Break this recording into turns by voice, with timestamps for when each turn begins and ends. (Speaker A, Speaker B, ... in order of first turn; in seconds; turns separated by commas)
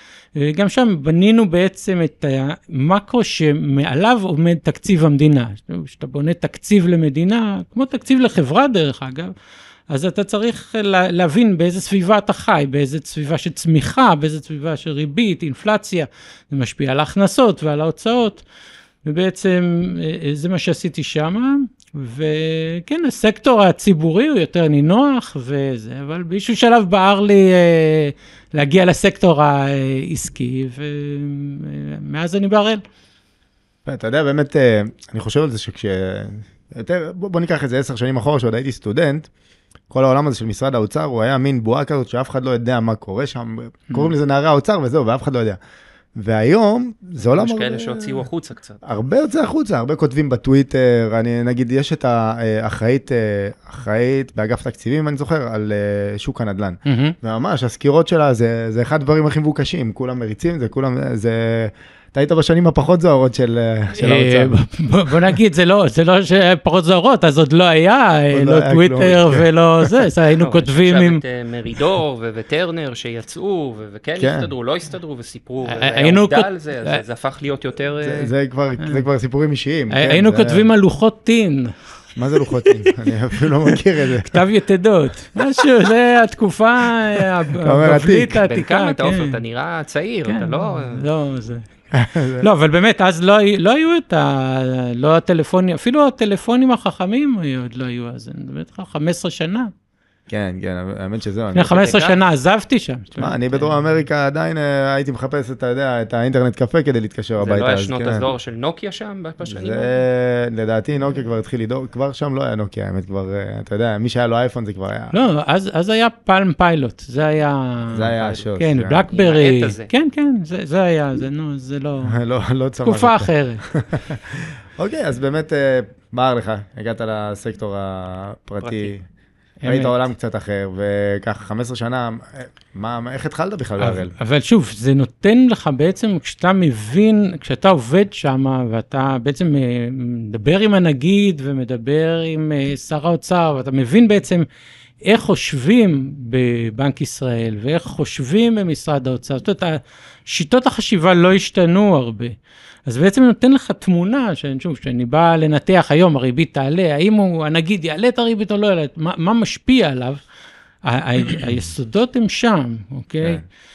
Speaker A: 0.4-9.3, Speaker A: 9.9-18.4, Speaker A: 19.0-32.8, Speaker B: 33.9-39.3, Speaker B: 39.9-45.6, Speaker B: 46.2-48.2, Speaker C: 47.4-48.8, Speaker B: 48.8-64.5, Speaker A: 56.9-57.1, Speaker A: 64.0-71.2, Speaker B: 68.3-69.9, Speaker C: 70.4-78.3, Speaker B: 74.2-74.5, Speaker A: 75.7-77.0, Speaker B: 78.0-80.7, Speaker A: 79.9-81.7, Speaker B: 82.2-84.4, Speaker A: 82.3-82.9, Speaker A: 84.2-89.4, Speaker B: 87.2-88.4, Speaker C: 88.3-91.1, Speaker A: 90.3-91.7, Speaker B: 91.9-92.5, Speaker A: 92.4-99.7, Speaker B: 100.3-102.0, Speaker A: 101.5-103.7, Speaker C: 101.7-102.1, Speaker B: 103.2-108.2, Speaker C: 107.4-110.0, Speaker B: 109.5-115.1, Speaker A: 115.1-122.2, Speaker B: 117.9-119.0, Speaker C: 119.1-119.9, Speaker B: 122.1-129.0, Speaker A: 122.8-123.6, Speaker C: 128.6-128.9, Speaker A: 129.6-130.1, Speaker B: 129.7-134.1, Speaker A: 133.8-144.5, Speaker A: 145.1-152.3, Speaker A: 152.9-160.2, Speaker A: 160.8-163.4